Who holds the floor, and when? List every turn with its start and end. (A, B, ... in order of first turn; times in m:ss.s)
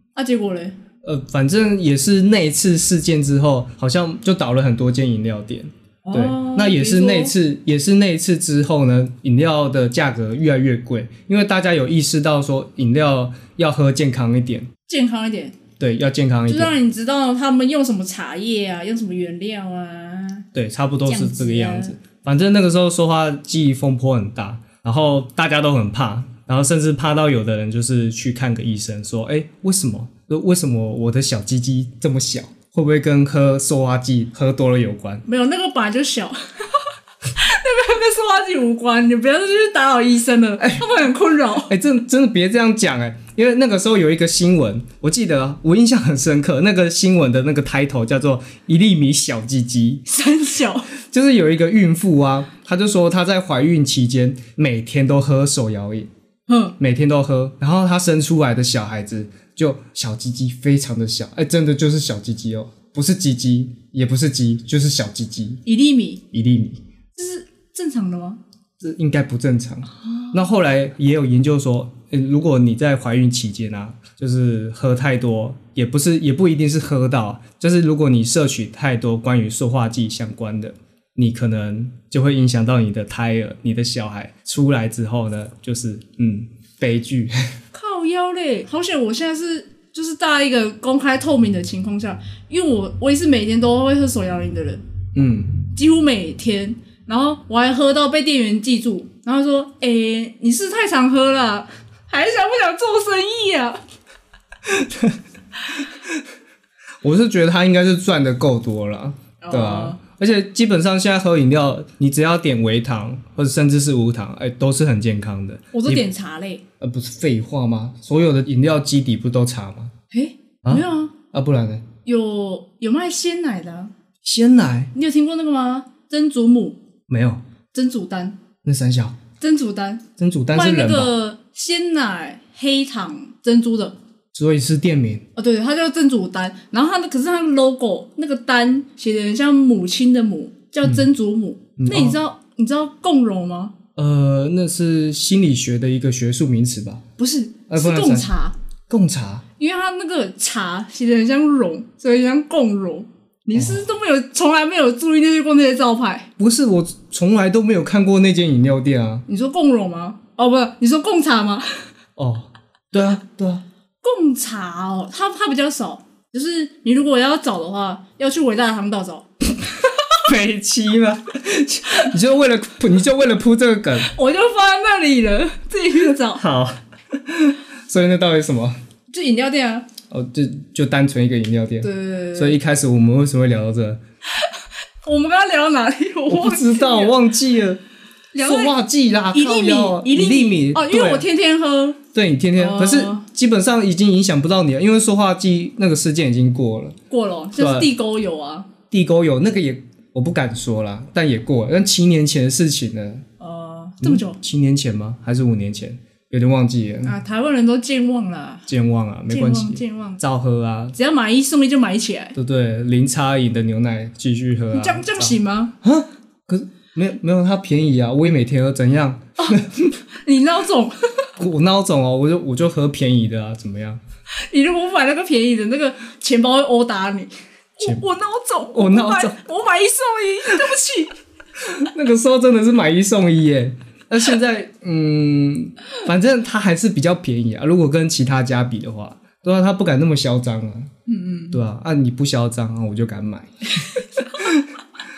0:00.1-0:00.8 A
0:01.0-0:14.7 B
0:06.0-0:07.3 A
0:14.9-0:15.6 A
0:15.8-0:16.7 B
0:16.5-0:20.4 A
0:20.5-0:35.2 B
0:21.0-0:22.0 A
0:35.2-0:36.8 A
0:37.3-0:41.7 A
0:40.6-0:40.9 B
0:41.7-0:50.0 B
0:50.1-0:50.9 A
0:51.0-0:56.1 B
0:56.5-0:56.8 A
0:56.8-1:05.6 B
1:05.6-1:06.2 A
1:06.3-1:06.8 B
1:07.1-1:08.4 A
1:08.8-1:27.5 B
1:10.0-1:10.4 A
1:27.7-1:34.8 A
1:35.1-1:35.6 B
1:35.7-1:43.8 A
1:44.6-1:45.2 B
1:47.0-1:56.0 B
1:49.4-1:50.0 A
1:55.7-1:56.6 A
1:56.8-1:59.9 B
2:00.1-2:01.1 A
2:00.6-2:01.8 B
2:02.0-2:03.9 A
2:04.2-2:04.9 B
2:04.9-2:06.8 A
2:07.1-2:07.4 B
2:07.7-2:08.4 A
2:08.6-2:09.2 B
2:09.4-2:13.9 A
2:10.2-2:11.1 B
2:14.3-2:15.2 B
2:15.4-2:23.7 A
2:21.8-2:22.2 B
2:24.0-2:27.0 B
2:27.2-2:28.5 A
2:27.7-2:28.3 B
2:28.9-2:29.4 B
2:29.6-2:36.3 A
2:33.5-2:33.8 B
2:36.4-2:39.2 B
2:39.3-2:41.8 A
2:42.2-2:43.6 B
2:44.0-2:50.1 A
2:50.2-2:54.1 B
2:54.0-2:56.4 A
2:56.3-2:58.8 B
2:59.1-2:59.9 A
3:00.1-3:04.0 B
3:01.8-3:02.6 A
3:05.0-3:07.2 A
3:06.3-3:07.8 B
3:08.3-3:08.7 A
3:08.4-3:11.2 B
3:09.3-3:12.0 A
3:12.1-3:17.0 B
3:12.6-3:13.2 A
3:17.1-3:18.7 A
3:17.6-3:17.9 B
3:18.9-3:23.2 B
3:23.4-3:24.4 A
3:24.0-3:27.1 B
3:27.0-3:28.7 A
3:28.7-3:30.9 B
3:29.3-3:30.2 A
3:30.9-3:32.4 A
3:32.4-3:40.0 B
3:34.7-3:35.7 A
3:40.2-3:41.3 A
3:41.4-3:44.0 B
3:44.5-3:51.2 A
3:48.7-3:49.3 B
3:51.6-4:00.9 B
4:01.1-4:01.6 A
4:01.5-4:04.7 B